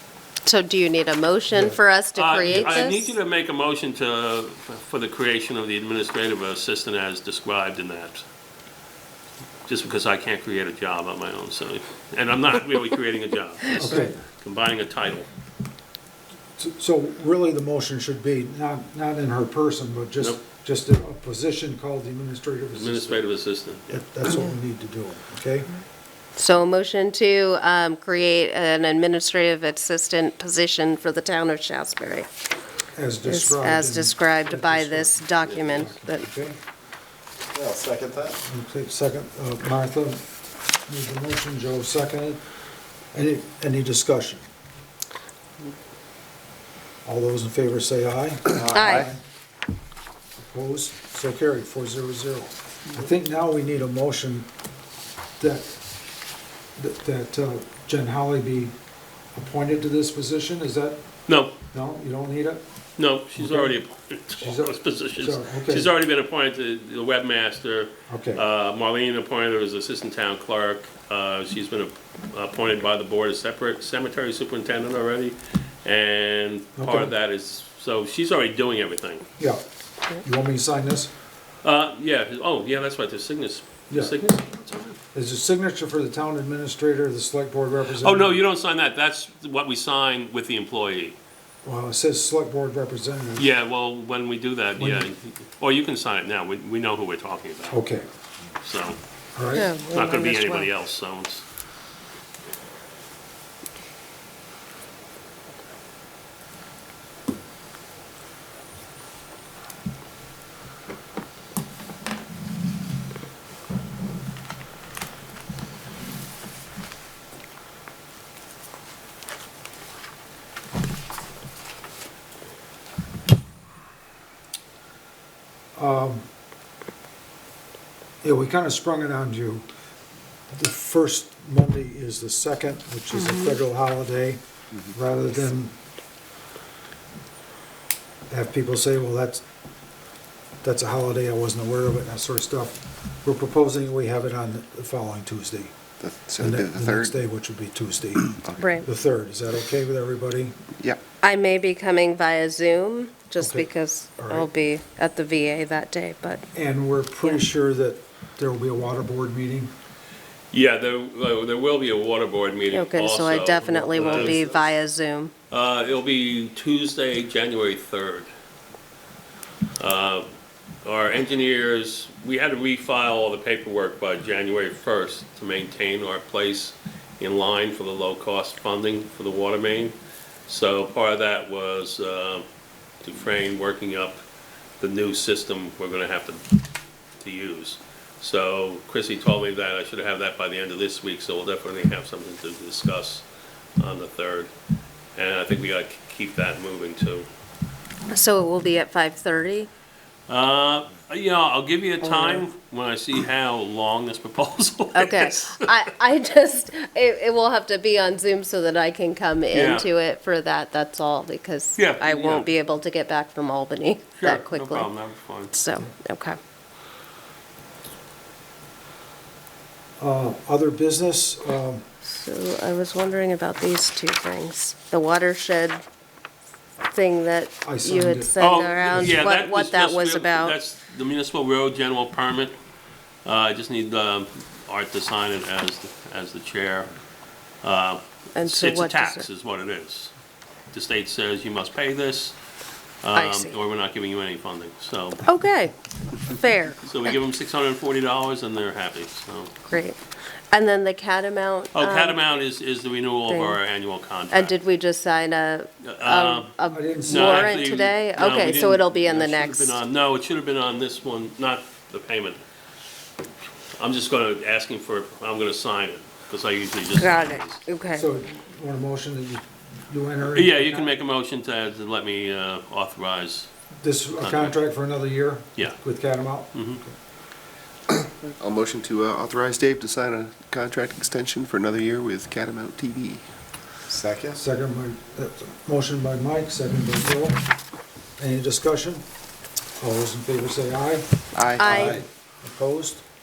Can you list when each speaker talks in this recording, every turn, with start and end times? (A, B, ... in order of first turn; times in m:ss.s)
0:00.4-0:03.1 A
0:01.5-0:01.8 B
0:02.2-0:08.2 C
0:02.5-0:02.8 B
0:09.7-0:15.3 C
0:13.8-0:14.2 B
0:16.6-0:23.2 B
0:22.8-0:23.8 C
0:23.9-0:25.7 B
0:26.4-0:32.3 A
0:33.0-0:36.6 B
0:33.2-0:36.3 A
0:37.5-0:38.4 D
0:38.4-0:40.2 B
0:40.9-0:42.4 B
0:43.1-0:44.4 B
0:47.0-0:49.2 B
0:48.5-0:49.1 D
0:48.7-0:49.1 A
0:50.4-0:54.5 B
0:55.4-0:55.8 B
0:56.8-0:58.8 B
0:59.4-1:01.0 B
1:01.3-1:01.5 C
1:01.7-1:02.6 B
1:03.0-1:19.3 C
1:03.4-1:03.8 B
1:04.4-1:05.9 B
1:08.1-1:08.4 B
1:16.8-1:17.1 B
1:19.4-1:19.6 B
1:20.2-1:21.1 B
1:21.6-1:25.0 C
1:23.9-1:24.4 B
1:25.1-1:28.4 B
1:28.0-1:31.2 C
1:31.6-1:33.5 B
1:33.4-1:37.8 C
1:34.8-1:35.1 B
1:37.7-1:38.0 B
1:38.6-1:39.0 C
1:39.4-1:39.7 B
1:39.5-1:40.7 A
1:39.6-1:41.4 C
2:05.8-2:06.2 B
2:08.2-2:09.7 B
2:10.5-2:14.4 B
2:13.1-2:13.6 A
2:14.9-2:15.8 B
2:18.3-2:19.4 B
2:20.6-2:25.7 B
2:26.0-2:27.2 D
2:26.4-2:30.6 B
2:28.4-2:28.7 D
2:28.6-2:28.8 A
2:31.2-2:36.5 A
2:33.4-2:34.5 B
2:36.5-2:39.7 B
2:40.5-2:44.7 C
2:42.7-2:45.3 A
2:43.9-2:44.5 B
2:45.5-2:48.3 C
2:49.8-2:50.3 C
2:50.8-3:00.0 C
3:00.5-3:02.5 C
3:03.0-3:04.2 C
3:04.8-3:06.5 C
3:07.2-3:13.3 C
3:13.8-3:14.5 C
3:15.2-3:17.3 C
3:18.1-3:19.7 A
3:20.3-3:25.7 C
3:22.0-3:22.4 A
3:25.0-3:34.9 A
3:29.5-3:29.9 C
3:31.8-3:32.5 C
3:34.2-3:35.5 C
3:35.5-3:36.4 A
3:40.0-3:41.8 B
3:42.0-3:45.8 A
3:46.9-3:50.6 A
3:47.6-3:48.4 B
3:48.4-3:52.5 C
3:48.9-3:49.2 B
3:53.2-3:56.9 C
3:57.6-4:00.1 C
3:58.4-3:59.3 A
4:00.7-4:02.4 C
4:03.0-4:05.3 C
4:03.2-4:03.6 A
4:05.2-4:06.9 A
4:06.9-4:09.5 C
4:09.6-4:10.0 A
4:10.5-4:12.2 A
4:11.7-4:14.6 C
4:13.3-4:13.6 A
4:14.3-4:19.8 A
4:15.8-4:16.5 C
4:16.7-4:17.6 B
4:17.0-4:22.4 C
4:23.8-4:27.6 C
4:26.9-4:28.1 A
4:27.9-4:30.9 B
4:30.3-4:33.5 C
4:33.8-4:36.9 B
4:34.2-4:34.6 C
4:36.5-4:36.8 C
4:37.9-4:43.2 D
4:43.9-4:44.4 D
4:44.3-4:47.4 B
4:48.2-4:49.0 B
4:49.8-4:53.0 B
4:51.3-4:52.0 D
4:51.6-4:52.0 A